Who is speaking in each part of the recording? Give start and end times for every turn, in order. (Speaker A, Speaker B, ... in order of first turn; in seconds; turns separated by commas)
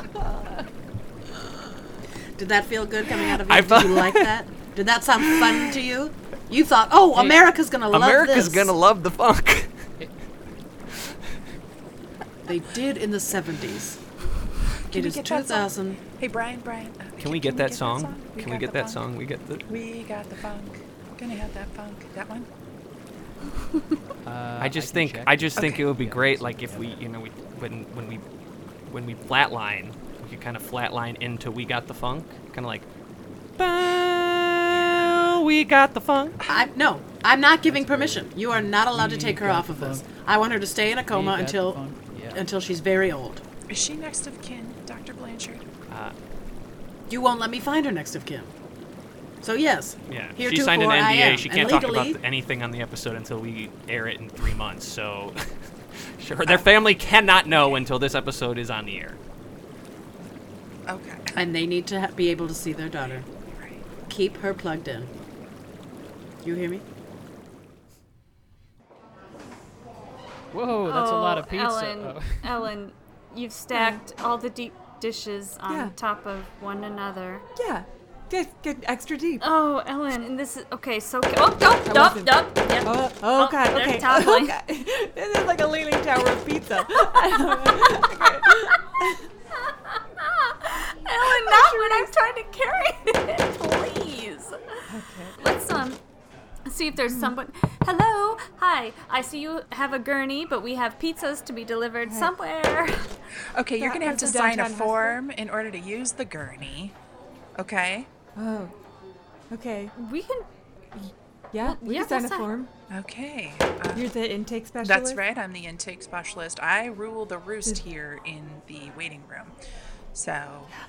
Speaker A: 2.4-8.7, Speaker B: 3.1-4.3, Speaker B: 5.2-5.7, Speaker B: 7.9-9.7, Speaker A: 12.4-14.0, Speaker C: 14.9-19.0, Speaker A: 14.9-16.0, Speaker B: 17.2-19.7, Speaker C: 19.7-22.5, Speaker D: 24.2-27.0, Speaker B: 24.6-28.2, Speaker C: 25.6-25.9, Speaker B: 28.9-32.9, Speaker B: 33.6-36.4, Speaker A: 36.5-41.8, Speaker D: 37.6-40.0, Speaker D: 41.1-42.4, Speaker A: 42.3-43.4, Speaker C: 43.7-45.6, Speaker B: 45.9-46.1, Speaker A: 47.1-48.5, Speaker A: 49.4-52.2, Speaker B: 50.1-59.2, Speaker C: 60.9-61.3, Speaker A: 61.4-63.3, Speaker C: 63.5-63.8, Speaker A: 64.1-65.1, Speaker A: 66.4-66.8, Speaker D: 70.5-72.7, Speaker E: 70.8-77.4, Speaker F: 73.7-74.0, Speaker F: 75.7-75.9, Speaker F: 77.5-79.5, Speaker E: 79.4-84.5, Speaker F: 81.7-89.2, Speaker E: 87.6-88.8, Speaker E: 89.6-94.6, Speaker F: 91.2-92.1, Speaker F: 94.9-95.4, Speaker E: 95.4-96.0, Speaker E: 96.7-103.1, Speaker F: 97.1-97.3, Speaker F: 102.0-102.3, Speaker C: 103.5-106.9, Speaker F: 103.8-105.2, Speaker C: 107.6-108.1, Speaker F: 108.3-108.7, Speaker F: 109.5-109.9, Speaker E: 110.0-110.5, Speaker F: 110.9-112.7, Speaker E: 111.6-112.5, Speaker C: 112.9-114.1, Speaker F: 113.9-115.2, Speaker C: 114.8-119.6, Speaker C: 120.1-120.7